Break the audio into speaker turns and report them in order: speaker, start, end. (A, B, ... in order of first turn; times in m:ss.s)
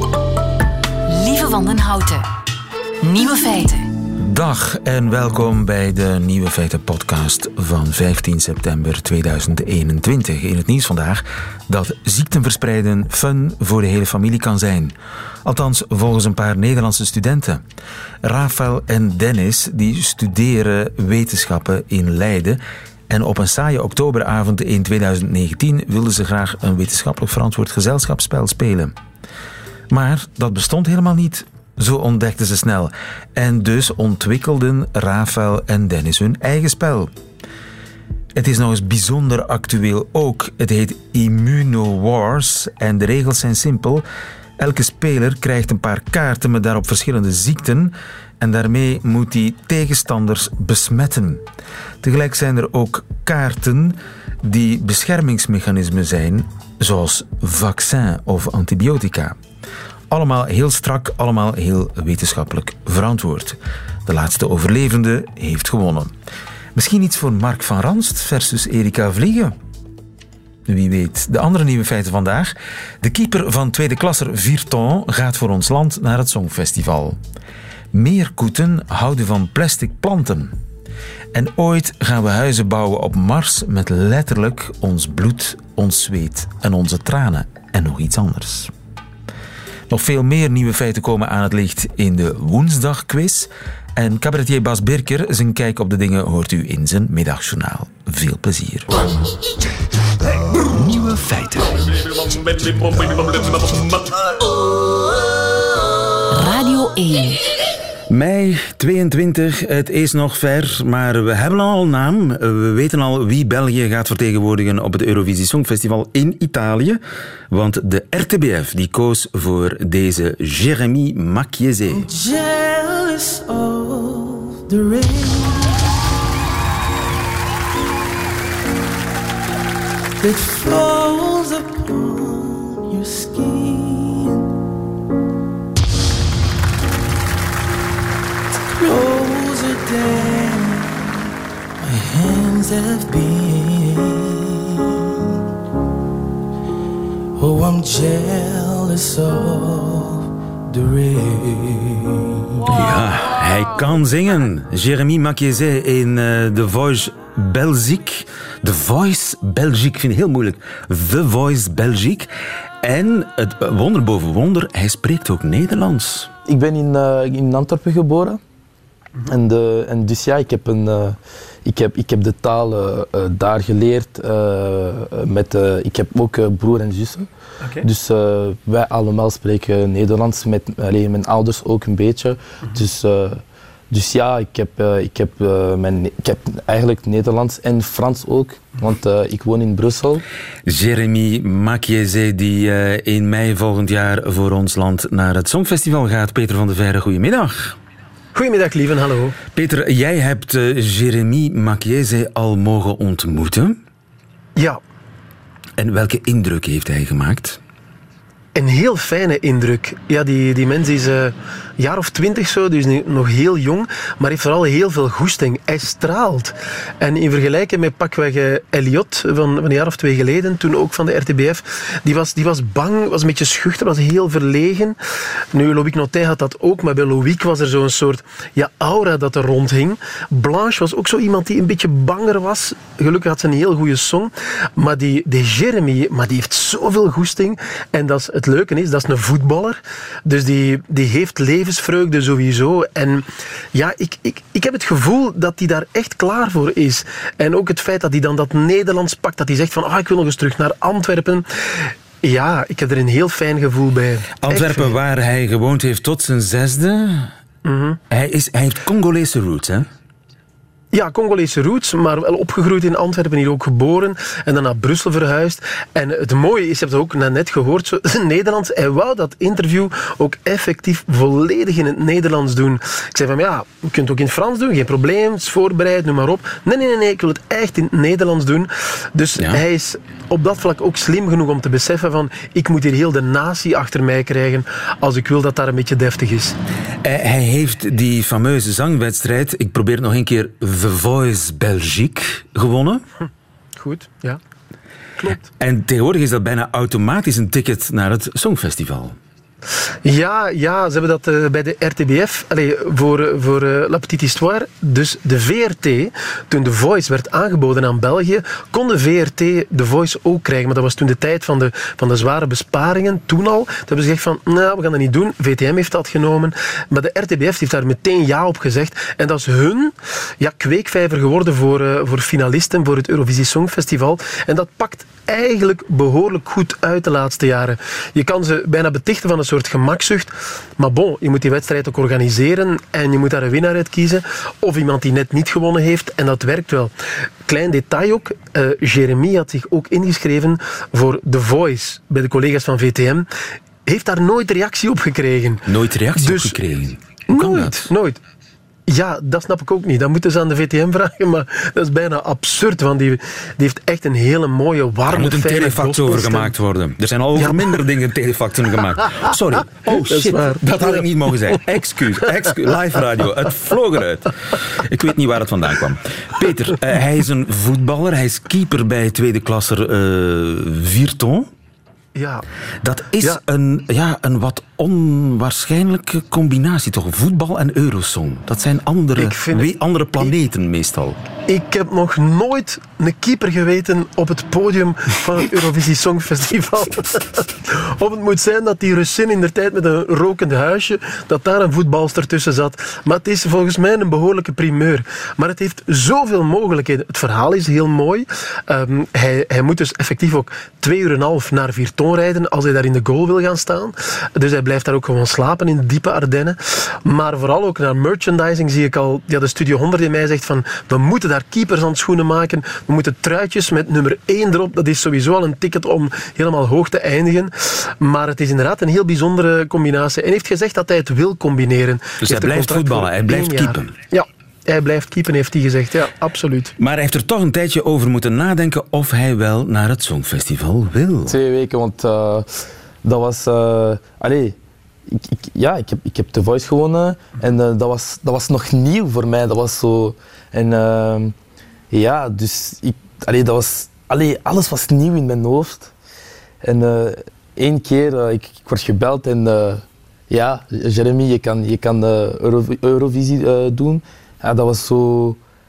0:01.1-0:02.2 A
0:03.0-0:03.9 A
0:04.2-0:17.6 B
0:18.2-0:28.9 B
0:29.9-0:37.1 B
0:38.3-0:44.0 B
0:44.6-0:51.4 B
0:52.0-0:59.4 B
1:00.1-1:06.1 B
1:06.7-1:09.6 B
1:10.7-1:17.2 B
1:17.9-1:20.5 B
1:21.3-1:28.7 B
1:29.9-1:39.0 B
1:40.3-1:44.2 B
1:46.3-1:47.4 A
1:48.1-1:57.0 B
1:57.5-2:02.1 B
2:01.9-2:05.8 C
2:10.2-2:14.5 C
2:18.8-2:21.2 C
2:21.8-2:25.0 C
2:27.4-2:32.8 C
2:32.7-2:42.3 B
2:42.8-2:46.3 B
2:46.5-2:48.4 D
2:49.2-3:10.2 D
3:10.7-3:17.8 B
3:18.3-3:19.4 E
3:19.5-3:23.8 B
3:25.8-3:27.6 B
3:28.6-3:45.0 E
3:45.5-4:14.9 E
4:14.4-4:17.3 B
4:17.6-4:18.0 E
4:18.1-4:19.9 B
4:20.9-4:46.6 E
4:47.0-4:53.0 B
4:53.8-4:54.4 E
4:55.6-4:59.2 B
5:00.0-5:36.9 E
5:37.4-5:43.3 E
5:43.9-5:46.6 E
5:45.7-5:47.9 B
5:47.3-5:48.2 E
5:48.9-5:56.5 E
5:55.1-6:11.5 B
5:57.4-5:57.7 E
5:59.9-6:01.0 E
6:12.2-6:12.4 E
6:12.8-6:21.2 B
6:19.2-6:19.7 E
6:21.5-7:06.7 E
7:02.2-7:03.9 B
7:06.8-7:11.4 B
7:11.2-7:12.5 D
7:13.0-7:14.6 D
7:15.1-7:21.4 D
7:21.9-7:25.9 D
7:26.6-7:35.4 D